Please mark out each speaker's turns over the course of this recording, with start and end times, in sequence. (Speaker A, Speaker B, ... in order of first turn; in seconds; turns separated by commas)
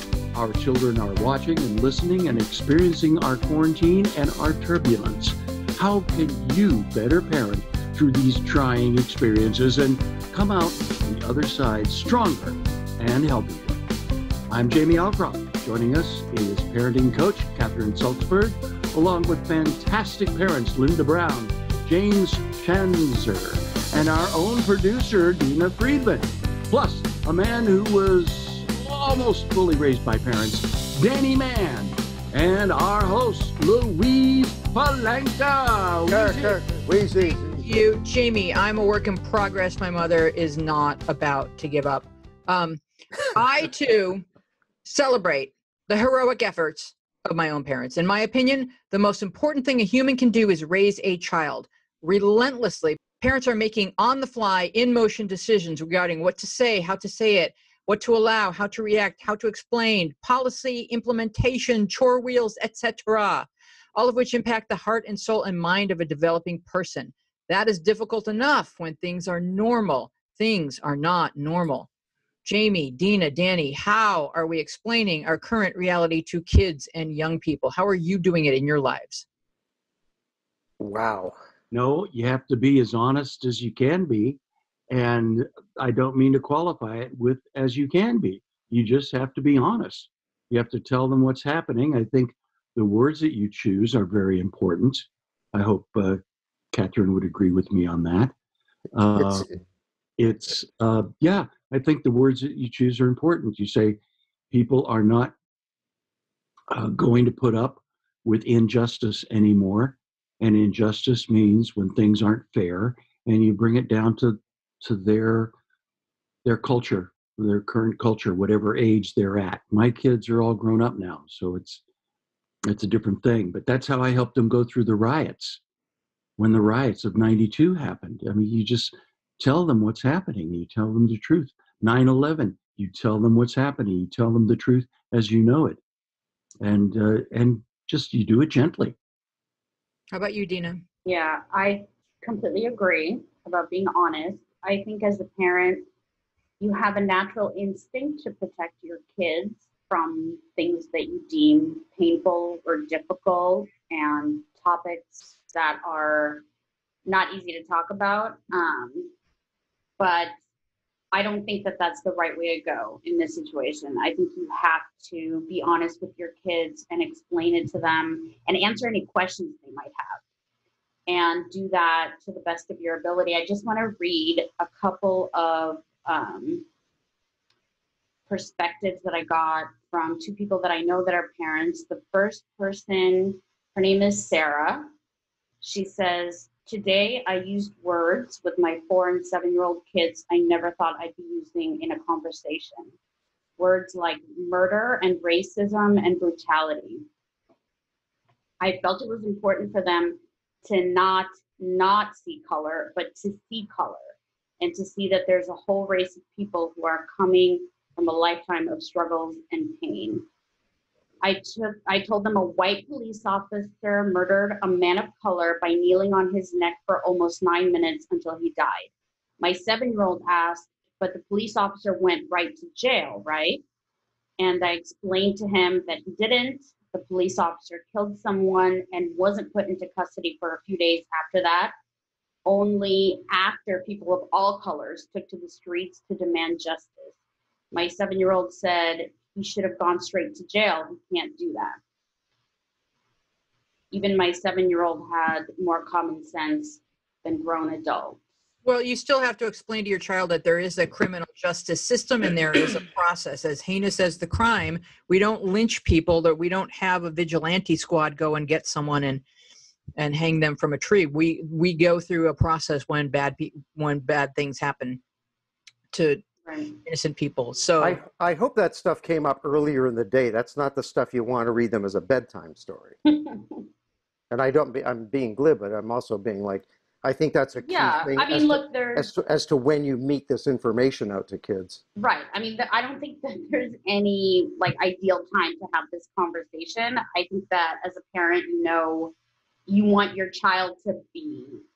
Speaker A: 0.3-13.8, Speaker A: 14.5-36.6, Speaker B: 36.1-37.7, Speaker C: 37.2-44.2, Speaker C: 44.9-71.9, Speaker C: 72.4-79.2, Speaker B: 80.8-81.4, Speaker A: 81.7-84.4, Speaker A: 84.9-96.2, Speaker A: 96.7-98.3, Speaker A: 98.9-99.5, Speaker A: 100.2-104.0, Speaker A: 104.5-105.3, Speaker A: 106.7-115.5, Speaker A: 116.5-121.8, Speaker A: 122.7-125.6, Speaker A: 126.4-135.8, Speaker A: 136.6-139.0, Speaker C: 140.1-140.8, Speaker D: 141.1-145.9, Speaker D: 146.6-156.4, Speaker D: 157.1-159.1, Speaker D: 160.0-160.3, Speaker D: 161.1-170.2, Speaker D: 171.1-176.7, Speaker D: 178.3-184.9, Speaker D: 185.6-192.9, Speaker D: 193.6-197.1, Speaker D: 198.6-210.2, Speaker D: 211.2-218.9, Speaker D: 219.4-223.6, Speaker D: 224.4-231.7, Speaker D: 232.5-237.1, Speaker D: 237.7-241.8, Speaker D: 243.9-248.2, Speaker C: 248.7-259.2, Speaker C: 260.0-265.0, Speaker C: 265.9-266.2, Speaker D: 266.5-266.8, Speaker C: 266.8-268.0, Speaker B: 267.8-273.0, Speaker D: 273.1-273.6, Speaker B: 274.3-281.8, Speaker D: 277.6-279.1, Speaker D: 282.0-289.1, Speaker D: 289.7-291.6